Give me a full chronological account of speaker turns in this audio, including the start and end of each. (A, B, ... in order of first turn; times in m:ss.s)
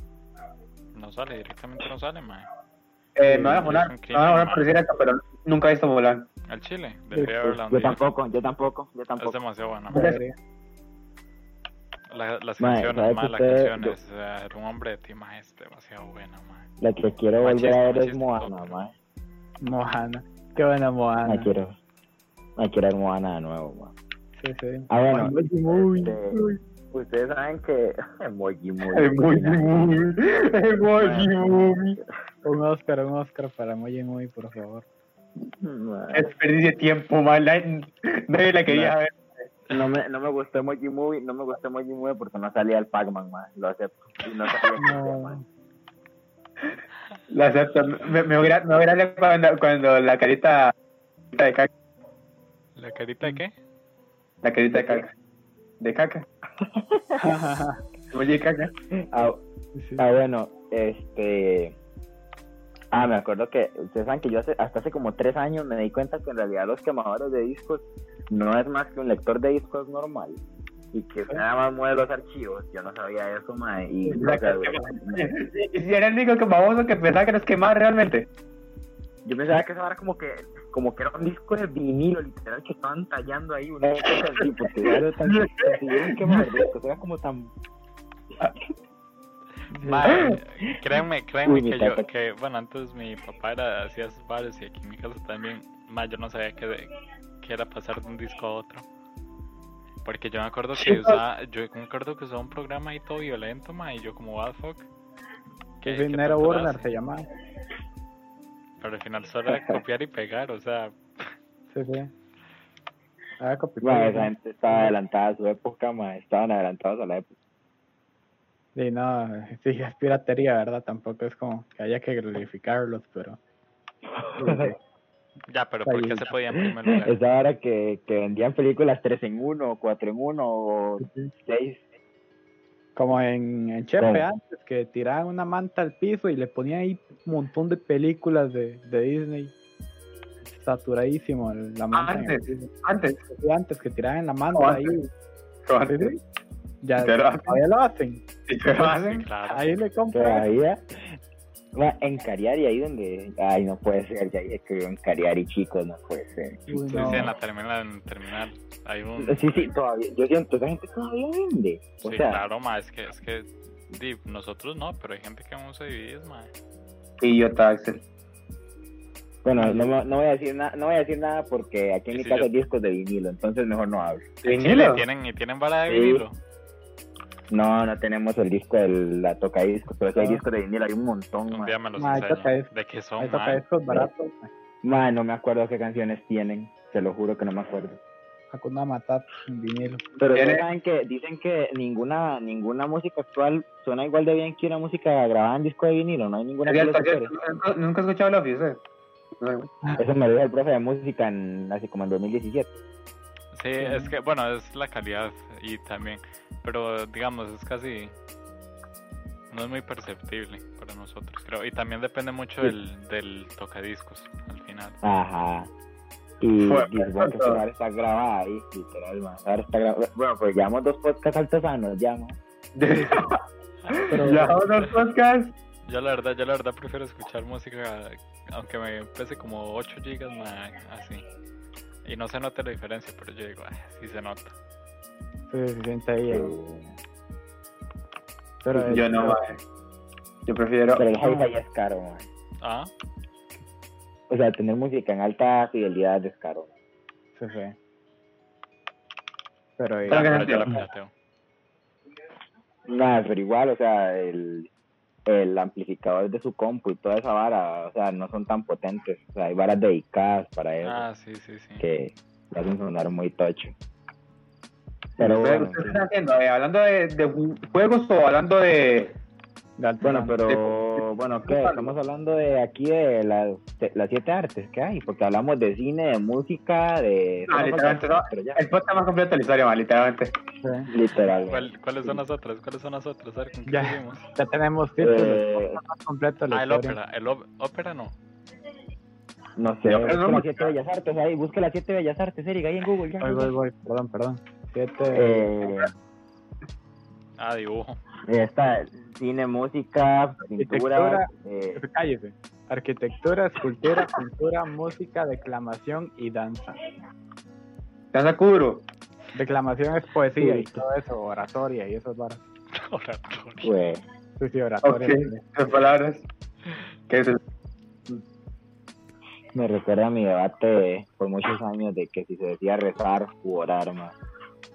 0:00.9-0:02.5 A
0:03.2-0:06.3 B
0:03.3-0:04.7 A
0:06.5-0:08.0 A
0:07.1-0:07.5 C
0:07.6-0:09.4 D
0:09.2-0:10.0 A
0:09.9-0:10.3 C
0:09.9-0:10.2 B
0:12.1-0:16.7 A
0:12.6-0:14.0 D
0:16.8-0:18.9 D
0:17.4-0:18.8 A
0:19.6-0:21.5 C
0:21.2-0:21.8 D
0:22.6-0:23.9 D
0:24.4-0:26.5 C
0:24.9-0:26.4 D
0:26.9-0:30.1 D
0:28.9-0:32.0 B
0:30.9-0:32.0 D
0:32.4-0:34.8 C
0:35.6-0:36.3 D
0:36.1-0:39.5 B
0:38.6-0:38.9 D
0:39.7-0:45.4 D
0:44.8-0:45.4 C
0:47.3-0:50.7 B
0:51.3-0:51.7 B
0:52.8-0:53.5 A
0:54.4-0:55.1 B
0:54.7-0:55.0 D
0:55.8-0:56.2 B
0:56.6-0:57.2 D
0:57.2-0:57.8 C
0:58.1-0:58.7 B
0:58.9-0:59.4 D
0:59.7-1:00.0 C
1:00.0-1:01.8 D
1:02.9-1:10.4 D
1:10.9-1:15.3 D
1:14.1-1:18.3 B
1:19.2-1:27.5 D
1:25.2-1:25.7 B
1:29.7-1:30.2 C
1:29.7-1:38.8 A
1:30.1-1:30.7 D
1:31.4-1:32.1 D
1:40.0-1:44.9 A
1:40.8-1:41.2 B
1:45.8-1:46.9 A
1:45.8-1:47.2 C
1:48.8-1:51.3 A
1:49.5-1:49.8 D
1:51.7-1:52.1 C
1:53.4-1:54.9 C
1:53.8-1:57.3 D
1:58.7-2:03.4 C
2:04.2-2:04.7 D
2:04.4-2:04.8 C
2:05.5-2:07.2 A
2:05.8-2:06.3 C
2:06.6-2:11.8 D
2:11.0-2:11.3 C
2:13.0-2:19.5 C
2:14.0-2:14.2 D
2:20.5-2:22.7 C
2:21.9-2:23.2 B
2:23.3-2:25.1 C
2:24.5-2:25.0 B
2:25.6-2:26.2 B
2:25.9-2:26.2 C
2:26.8-2:28.2 C
2:27.0-2:27.6 B
2:28.5-2:29.3 B
2:28.7-2:29.8 A
2:29.5-2:30.5 C
2:30.1-2:31.2 D
2:31.7-2:37.3 D
2:36.7-2:37.3 C
2:36.9-2:39.7 A
2:39.2-2:42.4 D
2:42.0-2:46.5 A
2:47.2-2:48.0 B
2:49.4-2:54.3 D
2:52.1-2:52.5 A
2:54.4-2:56.4 A
2:54.4-2:55.0 B
2:55.9-2:56.2 D
2:57.5-3:01.8 D
3:00.2-3:00.4 C
3:01.5-3:03.6 A
3:02.0-3:04.5 C
3:04.8-3:08.0 D
3:08.5-3:10.0 C
3:10.2-3:17.3 D
3:10.3-3:10.6 B
3:16.6-3:18.8 B
3:19.4-3:19.7 B
3:20.0-3:22.8 D
3:23.5-3:28.1 A
3:23.8-3:24.1 C
3:29.5-3:35.0 A
3:35.0-3:35.7 D
3:36.4-3:42.4 D
3:36.6-3:37.6 B
3:42.8-3:43.4 B
3:43.9-3:44.1 A
3:44.0-3:45.5 B
3:44.1-3:44.6 C
3:45.8-3:51.2 A
3:52.0-3:54.5 A
3:55.5-3:56.5 C
3:56.3-3:56.9 D
3:58.6-3:59.4 C
3:58.9-3:59.6 B
4:00.4-4:01.0 B
4:01.0-4:02.3 D
4:01.2-4:01.5 C
4:02.6-4:02.9 A
4:04.3-4:06.7 D
4:07.4-4:07.8 C
4:09.8-4:10.8 C
4:10.1-4:11.1 A
4:10.1-4:10.8 B
4:12.9-4:14.7 D
4:15.2-4:21.0 D
4:20.8-4:21.8 A
4:21.8-4:23.7 D
4:25.2-4:26.0 D
4:25.2-4:29.1 B
4:29.8-4:30.4 C
4:30.0-4:38.6 D
4:30.4-4:31.9 B
4:37.5-4:40.3 B
4:40.6-4:40.9 C
4:40.9-4:42.2 D
4:41.3-4:44.2 A
4:43.6-4:47.0 C
4:45.0-4:45.8 D
4:46.5-4:48.1 A
4:49.6-4:53.5 D
4:49.8-4:50.7 B
4:53.2-4:55.5 C
4:55.1-4:55.9 D
4:57.4-4:58.0 A
4:58.3-5:01.8 D
5:00.6-5:06.8 C
5:08.1-5:08.8 B
5:09.3-5:12.4 C
5:10.4-5:10.8 D
5:12.7-5:13.8 A
5:13.6-5:14.0 D
5:14.4-5:15.4 C
5:14.8-5:16.2 B
5:17.1-5:17.4 B
5:19.5-5:24.1 D